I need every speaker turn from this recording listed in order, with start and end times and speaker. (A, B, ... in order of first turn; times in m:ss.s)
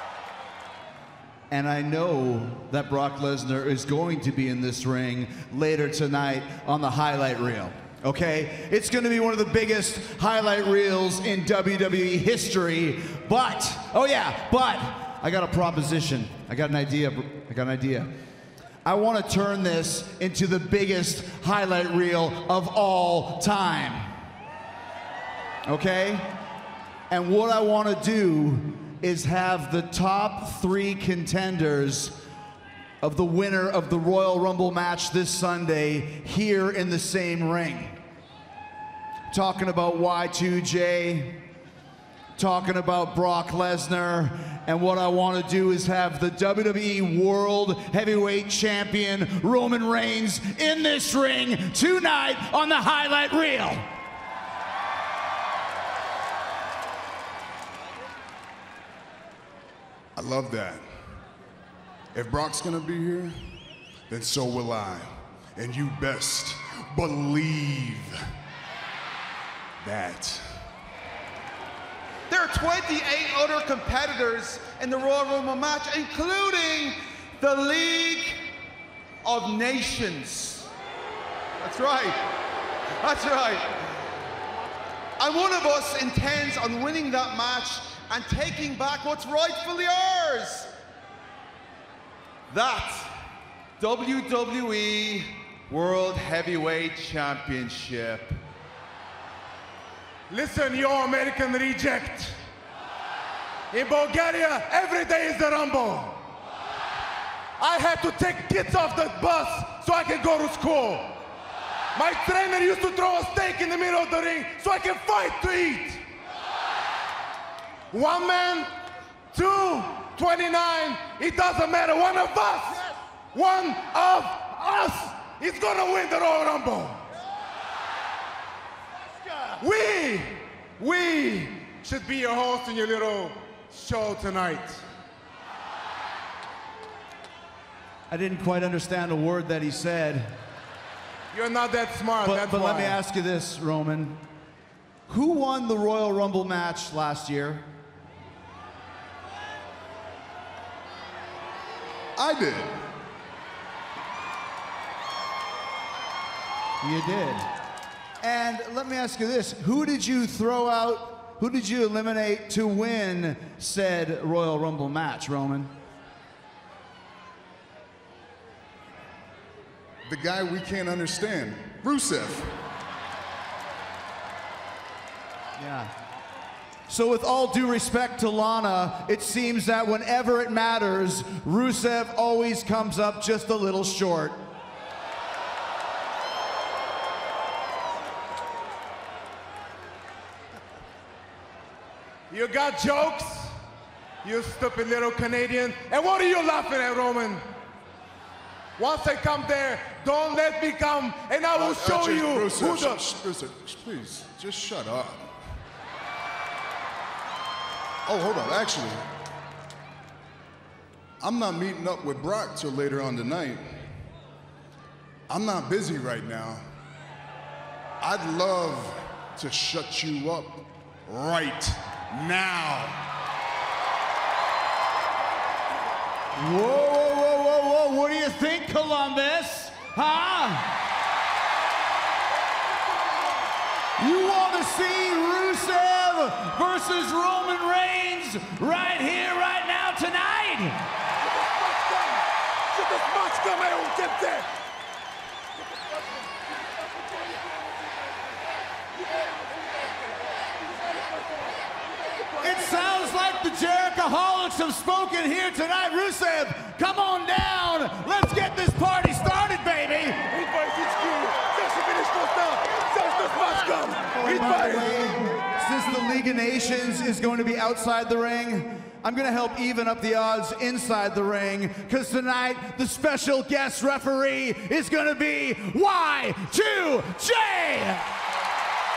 0:01.5-0:18.1 A
0:18.8-0:24.1 A
0:25.7-0:26.4 A
0:27.1-0:32.2 A
0:33.0-0:38.0 A
0:39.3-0:41.5 A
0:42.4-0:53.9 A
1:00.2-1:00.8 B
1:02.1-1:03.4 B
1:04.1-1:08.2 B
1:09.8-1:10.5 B
1:12.3-1:18.5 C
1:19.2-1:20.7 C
1:21.6-1:22.2 C
1:23.0-1:23.9 C
1:25.2-1:30.7 C
1:32.5-1:33.1 C
1:33.8-1:38.4 C
1:40.3-1:42.4 D
1:43.7-1:46.2 D
1:47.6-1:51.2 D
1:52.0-1:56.0 D
1:57.9-1:58.7 D
1:59.3-2:07.0 D
2:09.6-2:14.8 D
2:18.1-2:20.4 A
2:21.3-2:23.0 D
2:22.2-2:24.2 A
2:25.1-2:27.7 A
2:32.2-2:32.8 B
2:36.8-2:37.5 A
2:38.2-2:45.7 A
2:50.1-2:52.6 B
2:55.6-2:55.9 A
2:56.9-3:04.4 A
3:12.3-3:13.6 D
3:14.2-3:17.5 D
3:18.8-3:23.0 D
3:21.5-3:25.3 B
3:28.1-3:29.0 B
3:31.2-3:33.9 B
3:35.3-3:36.6 B
3:38.0-3:43.0 B
3:46.4-3:50.8 A
3:54.0-4:00.8 A
4:02.8-4:04.5 D
4:12.4-4:20.3 A
4:20.3-4:24.9 D
4:24.1-4:38.1 A